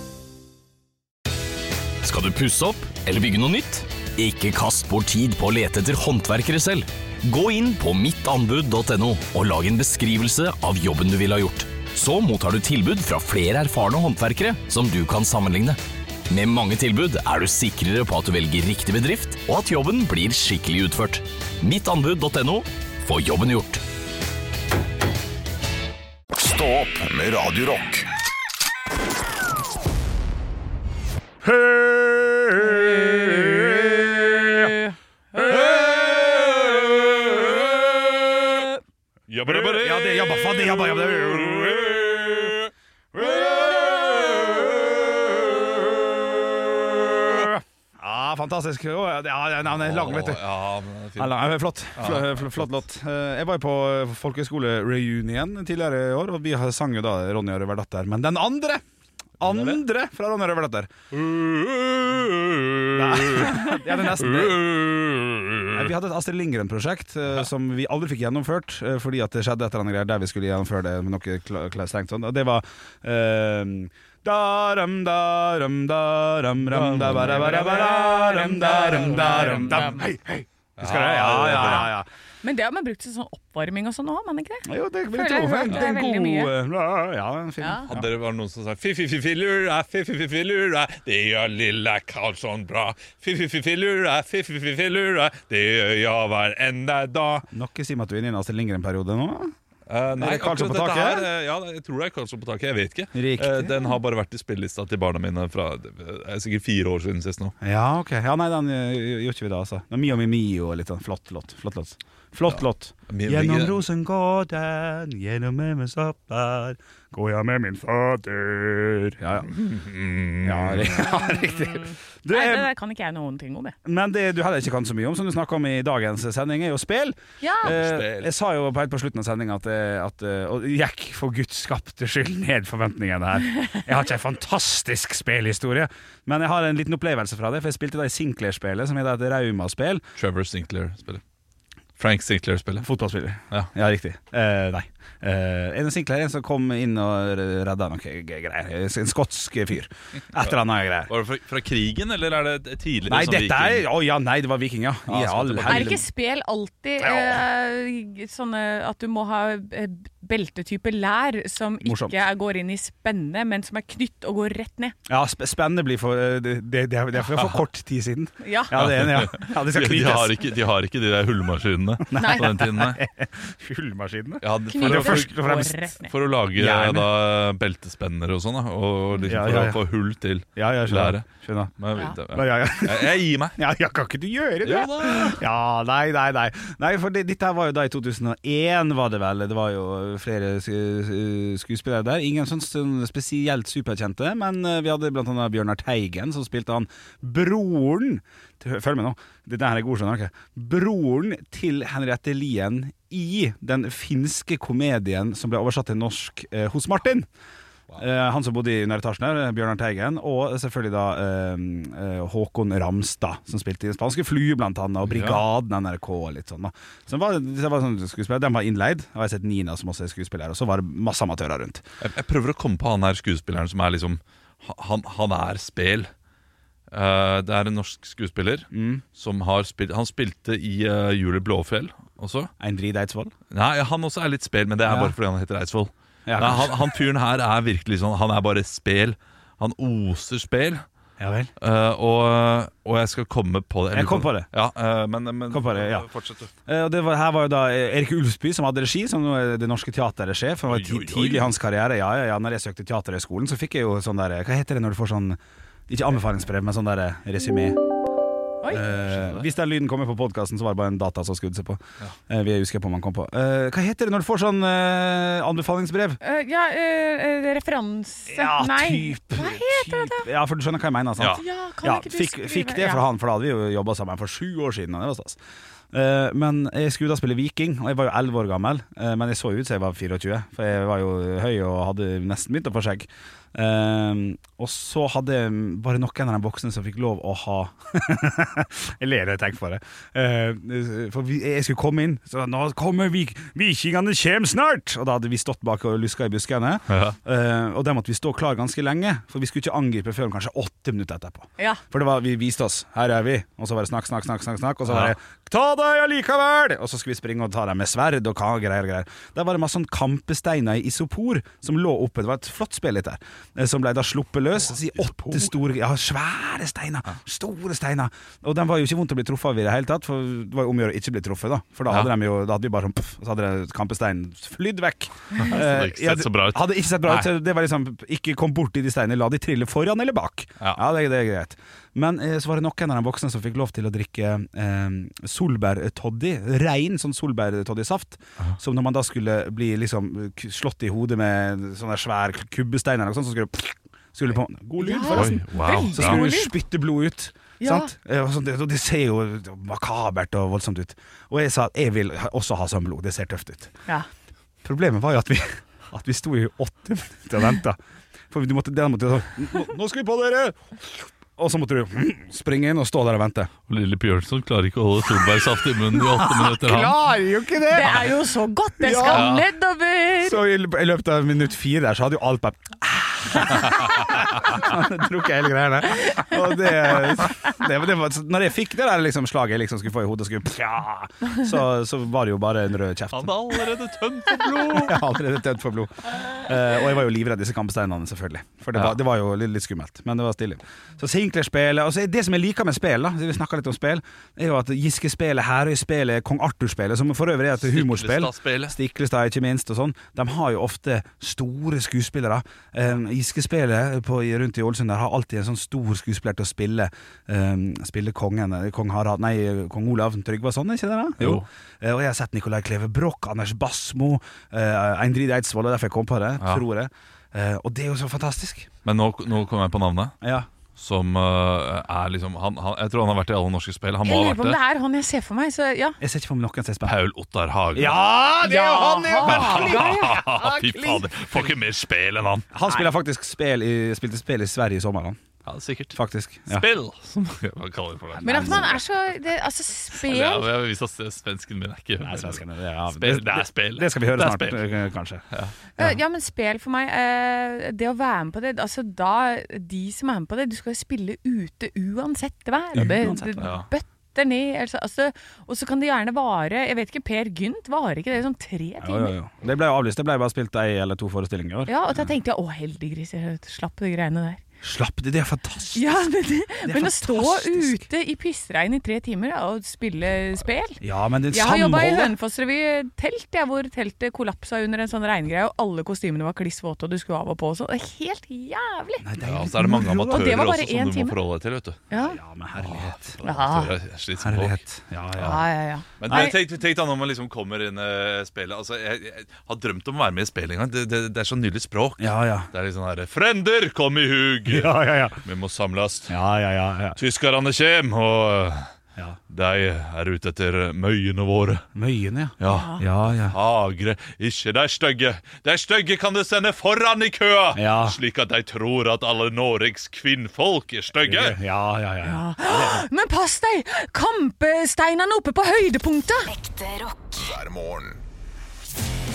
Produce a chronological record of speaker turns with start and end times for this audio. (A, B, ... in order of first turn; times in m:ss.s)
0:02.0-0:15.8 A
0:16.3-0:23.8 A
0:26.3-0:28.1 B
0:31.4-0:34.7 C
0:32.6-0:33.2 D
0:34.6-0:35.6 D
0:35.5-0:37.6 C
0:35.7-0:37.5 E
0:39.3-0:42.7 E
0:39.4-0:42.6 C
0:43.1-0:50.4 C
0:44.0-0:44.6 E
0:49.7-0:51.4 E
0:51.2-0:58.8 C
0:52.0-0:52.7 E
0:59.4-1:00.9 C
0:59.4-0:59.8 E
1:01.1-1:05.9 E
1:02.9-1:04.7 C
1:05.7-1:22.0 C
1:16.6-1:19.9 E
1:18.1-1:20.0 D
1:20.8-1:21.9 E
1:21.5-1:21.9 D
1:22.4-1:26.5 D
1:24.6-1:28.1 C
1:27.6-1:27.8 D
1:27.9-1:37.4 E
1:37.5-1:39.5 C
1:39.9-1:47.5 E
1:40.1-1:41.3 C
1:43.1-1:43.8 C
1:47.6-1:59.6 C
1:52.5-1:53.8 E
1:59.5-2:01.0 E
2:00.4-2:02.7 C
2:01.0-2:03.7 D
2:03.8-2:20.0 C
2:07.4-2:07.7 D
2:07.6-2:08.3 E
2:20.2-2:21.2 E
2:22.0-2:22.8 E
2:22.8-2:31.1 C
2:31.1-2:33.9 E
2:33.1-2:36.0 C
2:35.1-2:36.0 E
2:35.7-2:44.9 D
2:37.0-2:37.4 C
2:41.8-2:42.2 C
2:45.1-2:50.4 C
2:48.4-2:48.8 D
2:48.7-2:53.0 E
2:52.1-2:55.8 C
2:52.1-2:52.6 D
2:54.4-3:03.6 E
2:54.6-2:56.1 D
2:56.5-2:57.1 C
2:59.2-2:59.8 C
3:00.6-3:27.2 C
3:04.6-3:05.4 E
3:28.0-3:41.8 C
3:35.0-3:35.4 E
3:42.0-3:46.1 E
3:46.9-3:52.5 E
3:48.7-3:49.0 C
3:52.6-3:53.3 C
3:53.5-4:00.8 E
3:54.8-3:55.1 C
3:56.2-3:56.9 C
4:01.2-4:01.5 C
4:01.6-4:06.5 E
4:03.9-4:04.5 C
4:05.5-4:06.1 C
4:06.6-4:17.8 C
4:10.7-4:11.5 E
4:18.7-4:26.2 C
4:19.1-4:19.4 E
4:26.2-4:30.3 D
4:28.3-4:35.4 C
4:31.2-4:31.4 E
4:31.2-4:33.0 D
4:35.9-5:53.7 C
4:56.9-4:57.2 E
5:04.9-5:05.1 E
5:14.7-5:15.5 E
5:25.4-5:27.3 E
5:44.8-5:46.5 D
5:45.1-5:46.2 E
5:47.6-5:47.9 D
5:54.6-5:57.8 C
5:58.3-6:03.5 C
6:03.7-6:07.0 E
6:05.9-6:08.1 C
6:07.7-6:10.4 D
6:08.8-6:09.3 C
6:09.1-6:09.4 E
6:10.2-6:23.4 C
6:13.6-6:14.0 E
6:16.0-6:16.3 D
6:17.2-6:17.5 D
6:23.1-6:25.0 E
6:24.4-6:58.7 C
6:37.6-6:38.7 E
6:51.2-6:51.4 E
6:58.8-7:00.2 E
7:00.2-7:00.5 C
7:00.8-7:04.6 E
7:04.0-7:06.0 D
7:06.0-7:07.0 C
7:06.8-7:08.0 E
7:07.7-7:10.8 C
7:08.4-7:11.0 D
7:09.2-7:12.5 E
7:12.5-7:15.2 C
7:15.4-7:18.8 E
7:15.9-7:16.6 C
7:18.1-7:18.8 C
7:18.2-7:20.5 D
7:19.9-7:24.6 E
7:22.0-7:25.2 C
7:25.8-7:39.1 D
7:32.7-7:33.5 C
7:33.4-7:33.7 E
7:38.8-7:41.7 C
7:41.7-7:44.4 D
7:44.6-7:45.9 C
7:45.7-7:59.0 D
7:46.6-7:47.8 C
7:50.8-7:52.1 C
7:59.0-8:00.4 C
7:59.2-8:01.8 E
8:00.1-8:01.2 D
8:01.9-8:02.2 D
8:02.0-8:03.2 C
8:02.6-8:04.6 E
8:03.2-8:03.7 D
8:04.2-8:05.4 C
8:05.2-8:06.4 D
8:06.0-8:16.2 E
8:06.0-8:06.3 C
8:12.0-8:12.5 C
8:14.5-8:15.2 C
8:16.1-8:17.0 C
8:17.0-8:18.7 E
8:19.3-8:21.6 E
8:21.7-8:23.4 C
8:22.4-8:31.4 E
8:22.4-8:22.8 D
8:27.5-8:28.0 C
8:31.0-8:32.8 C
8:32.0-8:36.3 D
8:36.3-8:38.0 B